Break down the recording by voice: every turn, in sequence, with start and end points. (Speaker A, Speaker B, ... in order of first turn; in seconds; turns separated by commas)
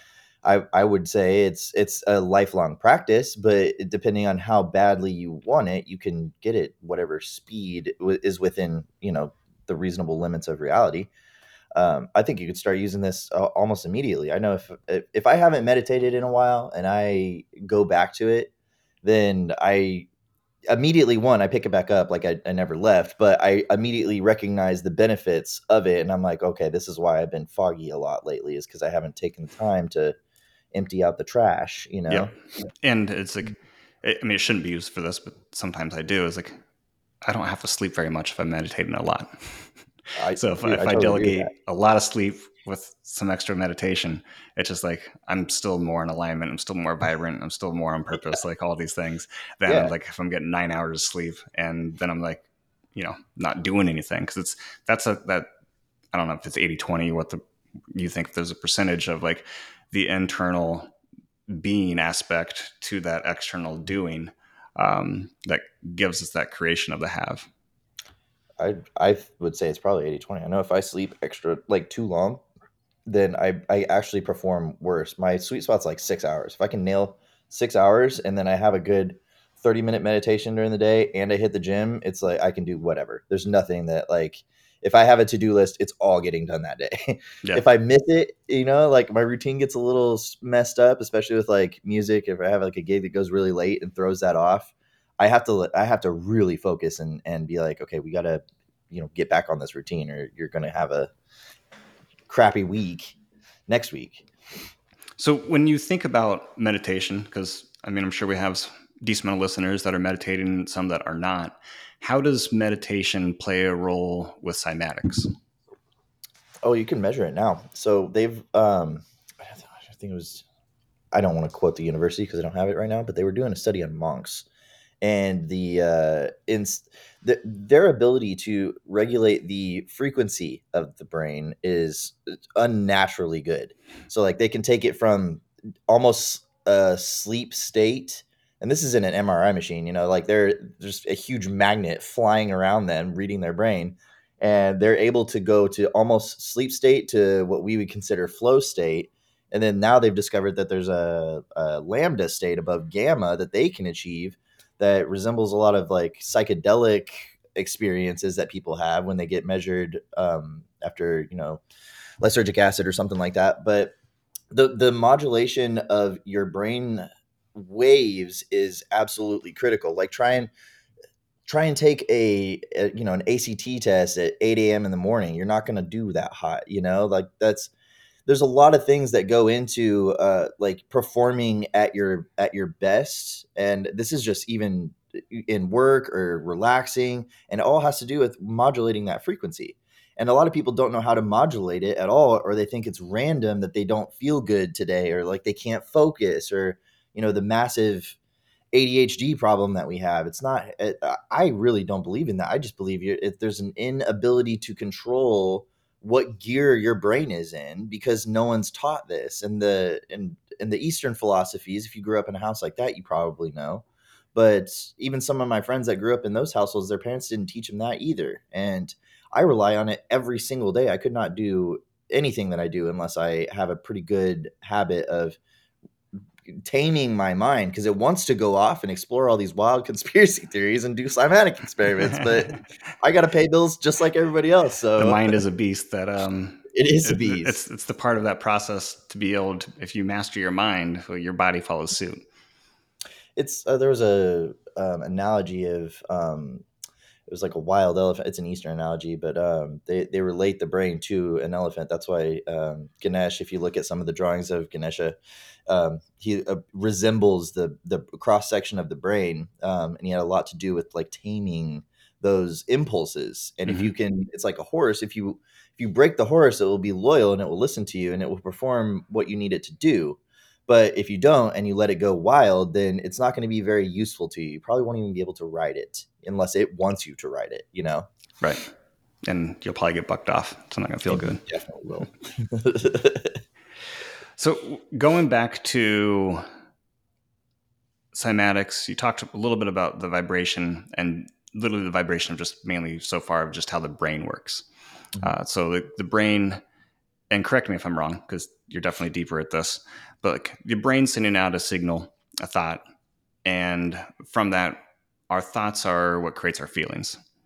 Speaker A: 0.4-11.1, Speaker A: 11.7-18.5, Speaker A: 19.0-20.1, Speaker A: 20.7-30.1, Speaker A: 30.7-32.3, Speaker B: 32.8-36.5, Speaker B: 37.2-39.7, Speaker A: 40.2-41.5, Speaker B: 40.4-55.5, Speaker A: 49.7-49.9, Speaker B: 56.1-57.4, Speaker B: 57.9-60.9, Speaker B: 61.5-67.5, Speaker A: 68.6-72.4, Speaker A: 73.1-101.1, Speaker A: 102.3-103.2, Speaker A: 103.7-104.3, Speaker B: 105.2-115.3, Speaker A: 116.6-120.5, Speaker A: 121.1-124.5, Speaker A: 125.0-161.6, Speaker A: 162.2-163.9, Speaker A: 164.5-170.5, Speaker A: 171.5-177.7, Speaker A: 178.3-198.2, Speaker A: 198.7-225.4, Speaker A: 226.5-235.4, Speaker B: 232.2-232.5, Speaker B: 235.0-242.2, Speaker A: 236.7-237.6, Speaker A: 243.4-246.7, Speaker A: 247.3-255.2, Speaker A: 255.7-278.1, Speaker B: 263.7-263.9, Speaker B: 278.4-278.7, Speaker B: 279.2-281.4, Speaker A: 281.1-283.4, Speaker B: 284.4-286.4, Speaker B: 288.1-294.7, Speaker B: 295.2-296.6, Speaker B: 297.3-302.8, Speaker B: 303.4-307.2